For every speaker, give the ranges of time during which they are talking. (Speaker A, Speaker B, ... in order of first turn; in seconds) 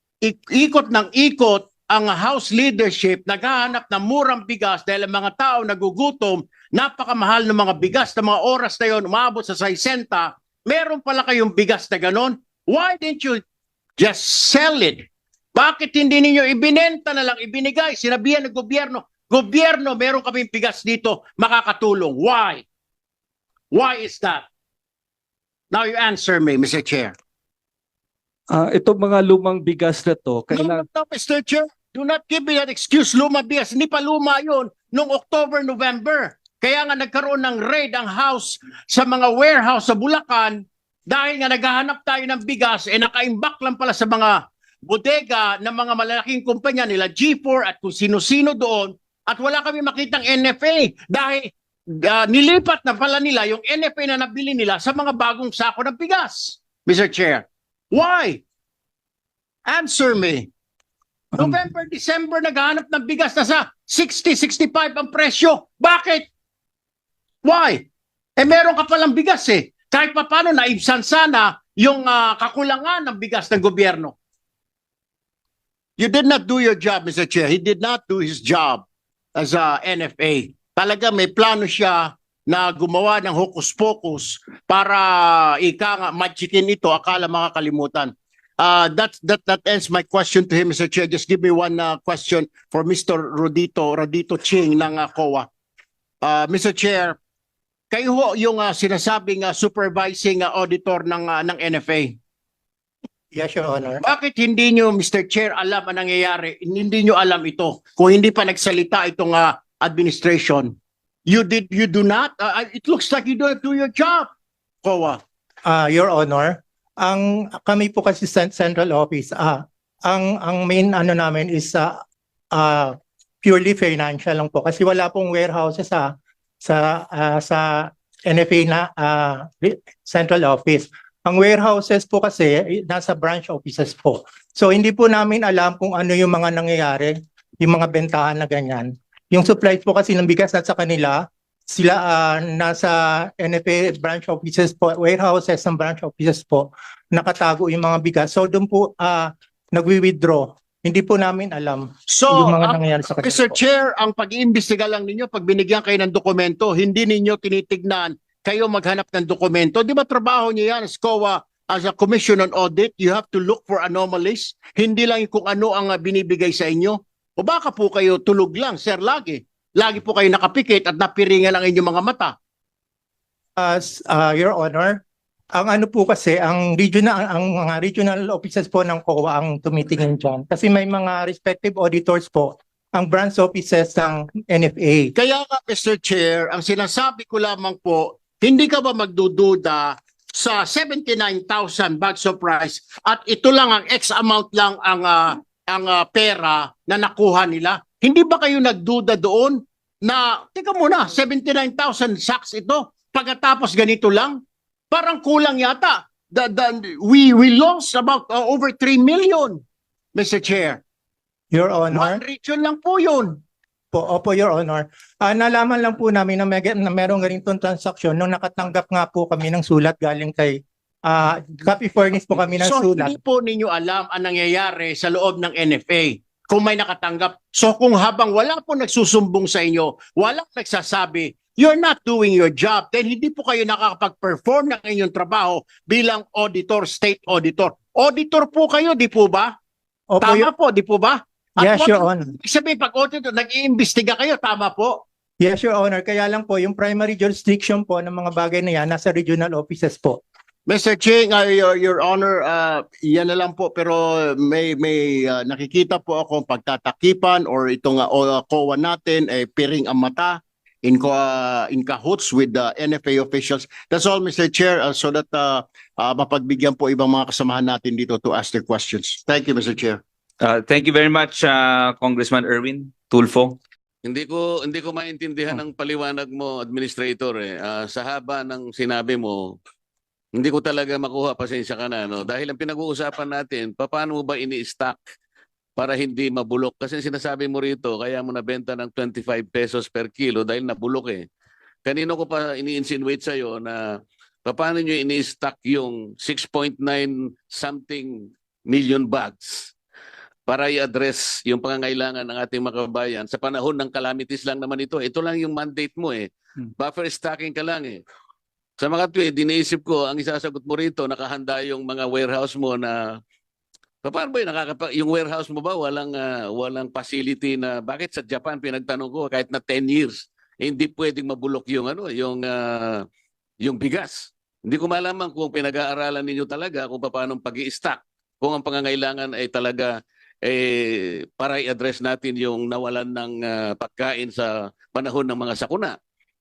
Speaker A: 0.2-13.4, 14.0-22.6, 23.7-24.4, 25.7-27.1, 30.5-51.5, 52.0-58.4, 59.6-60.5, 61.4-66.3, 67.4-67.8, 68.4-74.2, 76.0-78.8, 79.4-95.5, 96.2-97.2, 97.9-102.2, 104.0-110.7, 111.2-114.3, 114.8-115.2, 152.1-172.3, 185.1-204.4, 204.9-209.6, 210.1-210.8, 211.9-213.4, 222.3-239.5, 240.2-245.0, 250.7-270.0
Speaker B: 28.5-30.8
Speaker C: 103.3-104.0, 115.7-122.0, 122.5-126.1, 126.6-153.6, 173.6-175.0, 175.6-185.1, 211.5-212.2, 213.9-223.2, 240.1-240.5, 241.6-242.3, 245.4-250.2
Speaker D: 270.4-273.6
Speaker E: 274.0-279.6, 280.4-285.0, 285.8-291.2, 291.8-299.7, 300.5-308.0, 308.8-313.2, 314.0-323.1, 323.6-329.9, 330.4-335.9